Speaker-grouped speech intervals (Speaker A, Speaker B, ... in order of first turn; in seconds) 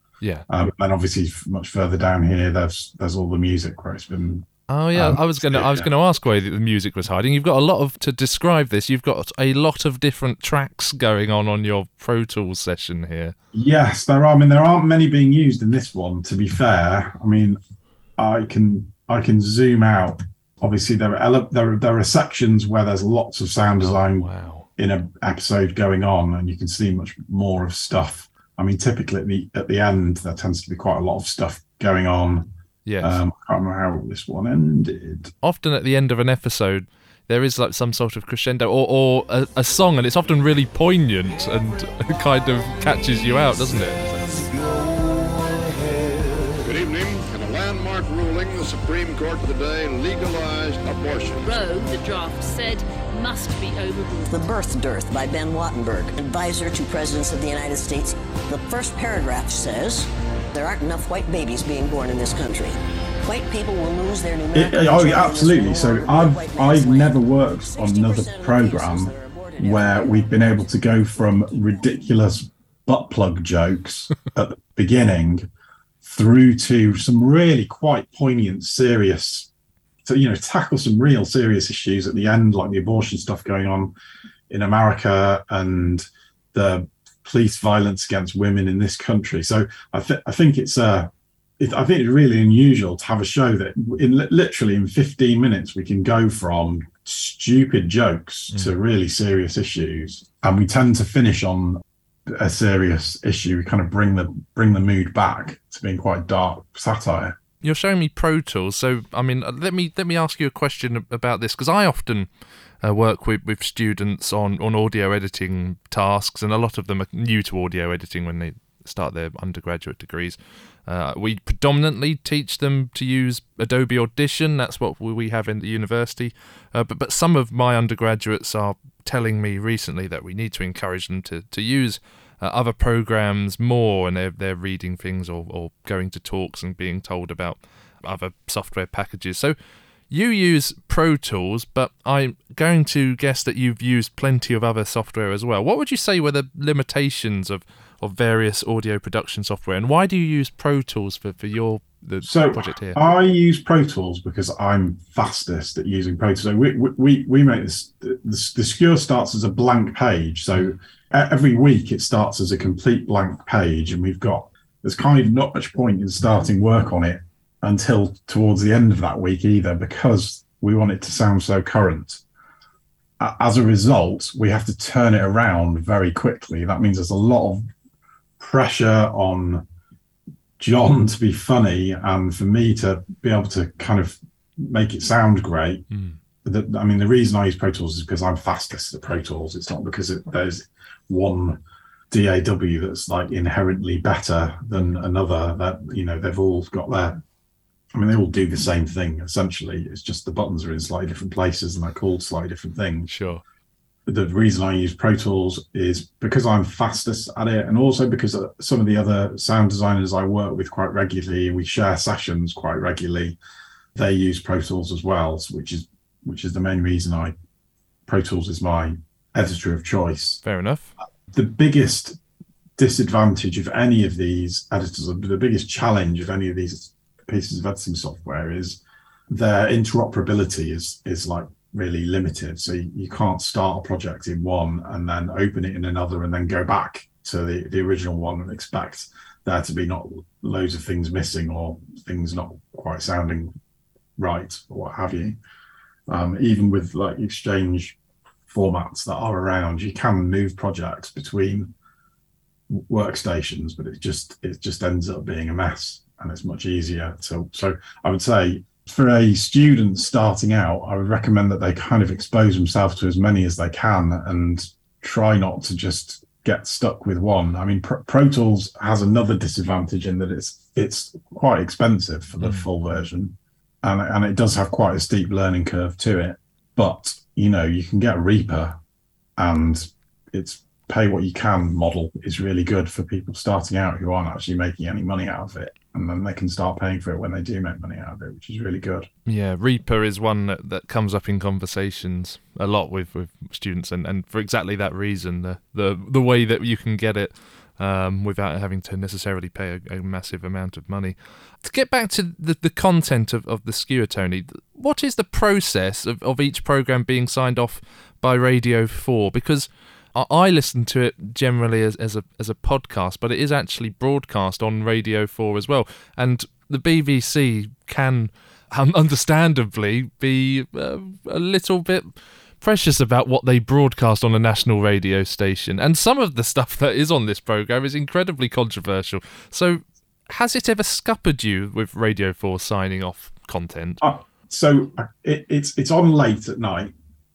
Speaker A: 0.2-0.5, 4.7-13.3, 23.8-24.7, 32.9-33.2, 35.4-44.5, 107.6-112.3, 112.8-139.6, 140.1-153.1, 185.9-186.2, 203.1-203.4, 220.4-220.9, 272.4-272.7, 289.2-334.0
Speaker B: 0.5-5.9, 13.5-17.6, 18.2-32.5, 33.0-35.3, 64.5-75.5, 76.0-79.5, 80.0-83.9, 84.5-107.3, 152.2-172.2, 173.2-177.6, 178.4-179.6, 180.6-185.8, 186.4-191.6, 192.1-197.2, 197.9-203.1, 204.1-213.4, 213.9-217.3, 218.1-220.4, 221.3-222.2, 222.8-243.5, 244.2-245.4, 246.1-248.0, 248.5-251.7, 252.7-278.8, 279.4-289.1, 334.0-336.9
Speaker C: 46.6-51.6
Speaker D: 51.4-54.5
Speaker E: 54.3-71.9